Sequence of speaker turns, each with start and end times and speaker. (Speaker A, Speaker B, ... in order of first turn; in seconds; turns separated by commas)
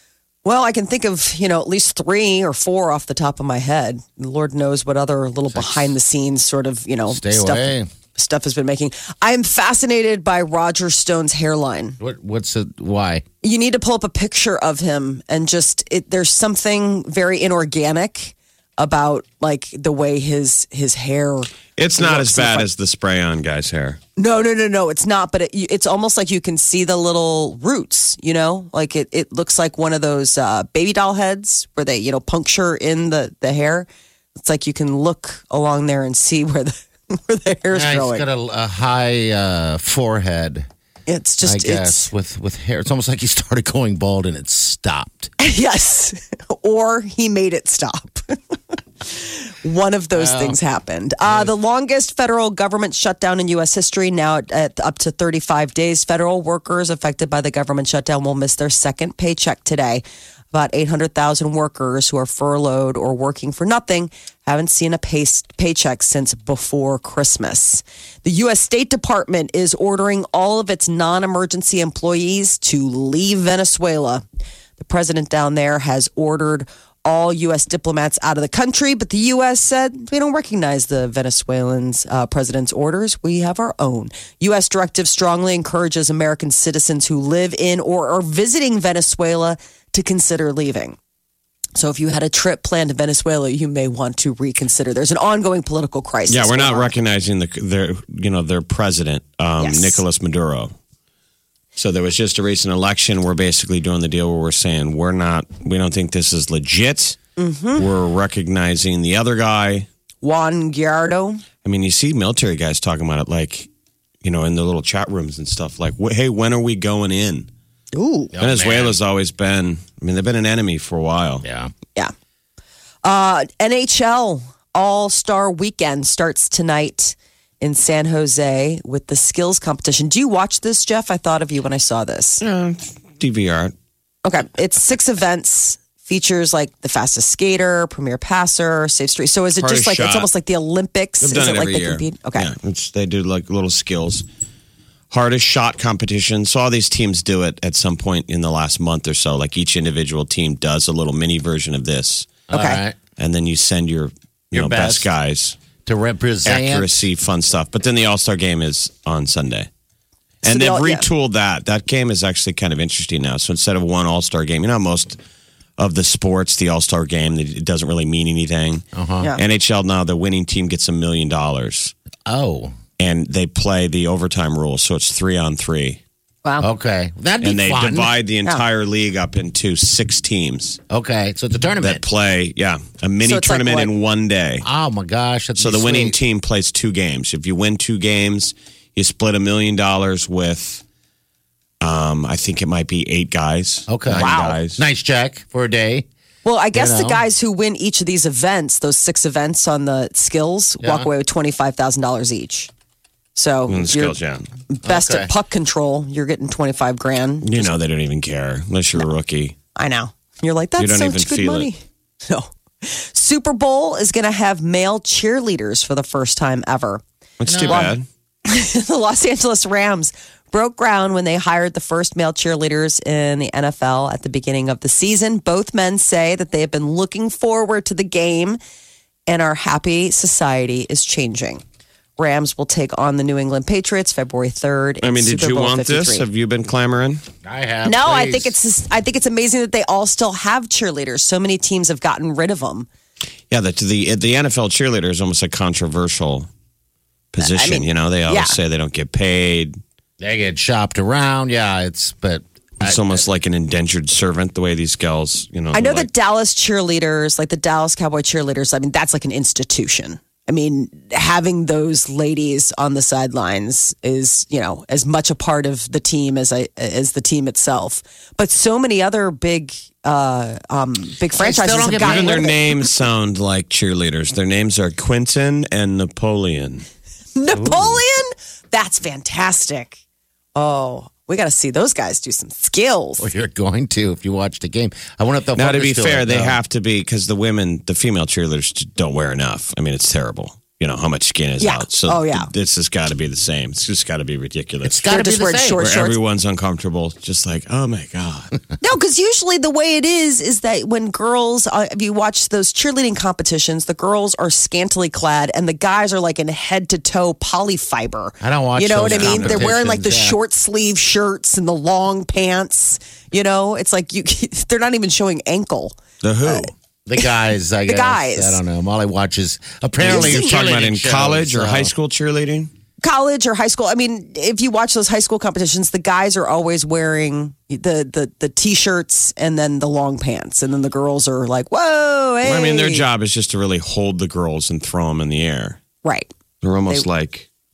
Speaker A: 0.4-12.0, Speaker B: 5.5-5.9, Speaker B: 7.1-7.9, Speaker B: 12.0-13.2, Speaker A: 13.4-22.7, Speaker C: 21.8-24.0, Speaker A: 24.2-38.2, Speaker B: 37.7-40.7, Speaker A: 41.1-42.1, Speaker B: 41.4-45.3, Speaker A: 45.4-48.5, Speaker A: 49.0-74.2, Speaker B: 50.1-50.6, Speaker A: 74.8-91.0, Speaker A: 91.8-96.9, Speaker C: 96.3-100.7, Speaker A: 99.6-100.0, Speaker C: 101.8-107.2, Speaker A: 107.4-107.8, Speaker C: 107.8-109.9, Speaker A: 110.2-111.4, Speaker C: 111.6-113.7, Speaker C: 114.2-117.5, Speaker A: 117.9-118.3, Speaker B: 118.3-119.0, Speaker C: 118.4-121.4, Speaker B: 121.4-121.7, Speaker A: 123.0-132.4, Speaker C: 132.4-133.7, Speaker A: 134.2-142.5, Speaker C: 139.6-140.3, Speaker C: 141.2-144.2, Speaker C: 145.1-152.4, Speaker B: 152.5-153.0, Speaker A: 152.5-152.8, Speaker C: 153.2-155.6, Speaker B: 154.5-155.1, Speaker B: 155.8-156.9, Speaker C: 156.4-159.7, Speaker C: 160.4-165.2, Speaker A: 160.4-161.1, Speaker C: 165.8-168.8, Speaker B: 168.9-169.2, Speaker C: 169.3-171.9, Speaker B: 172.3-172.7, Speaker C: 173.0-176.0, Speaker B: 176.6-178.1, Speaker C: 177.4-180.8, Speaker B: 180.9-182.0, Speaker C: 181.8-184.7, Speaker A: 183.2-183.9, Speaker B: 184.6-186.2, Speaker C: 185.6-190.8, Speaker C: 191.8-194.8, Speaker B: 193.9-196.1, Speaker A: 194.2-194.5, Speaker A: 196.4-202.7, Speaker B: 196.7-197.2, Speaker B: 200.8-201.1, Speaker A: 203.3-204.1, Speaker C: 203.7-204.5, Speaker A: 204.7-207.7, Speaker B: 204.8-205.3, Speaker C: 207.4-209.6, Speaker A: 209.7-217.0, Speaker C: 210.8-211.7, Speaker C: 217.4-218.1, Speaker B: 217.4-217.9, Speaker A: 217.6-217.9, Speaker A: 218.4-228.6, Speaker A: 229.3-231.6, Speaker A: 232.2-236.2, Speaker C: 235.0-237.2, Speaker B: 237.4-238.5, Speaker A: 237.8-242.9, Speaker C: 243.5-246.5, Speaker C: 247.3-249.8, Speaker A: 247.4-248.6, Speaker B: 250.2-253.2, Speaker C: 252.8-256.1, Speaker A: 255.7-272.7, Speaker B: 271.3-272.5, Speaker C: 272.0-276.9, Speaker A: 277.4-280.0, Speaker B: 277.5-278.0, Speaker A: 280.5-283.3, Speaker B: 283.2-286.6, Speaker C: 285.6-295.0, Speaker A: 291.6-292.5, Speaker B: 294.8-295.8, Speaker A: 295.1-296.2, Speaker C: 295.8-298.5, Speaker A: 298.8-316.7, Speaker B: 308.4-310.4, Speaker C: 309.1-309.7, Speaker C: 316.2-316.7, Speaker B: 317.1-321.9, Speaker A: 317.9-318.6, Speaker C: 320.0-322.7, Speaker A: 320.0-320.5, Speaker A: 323.0-333.0, Speaker C: 332.4-335.8, Speaker A: 336.0-336.3, Speaker C: 336.6-337.5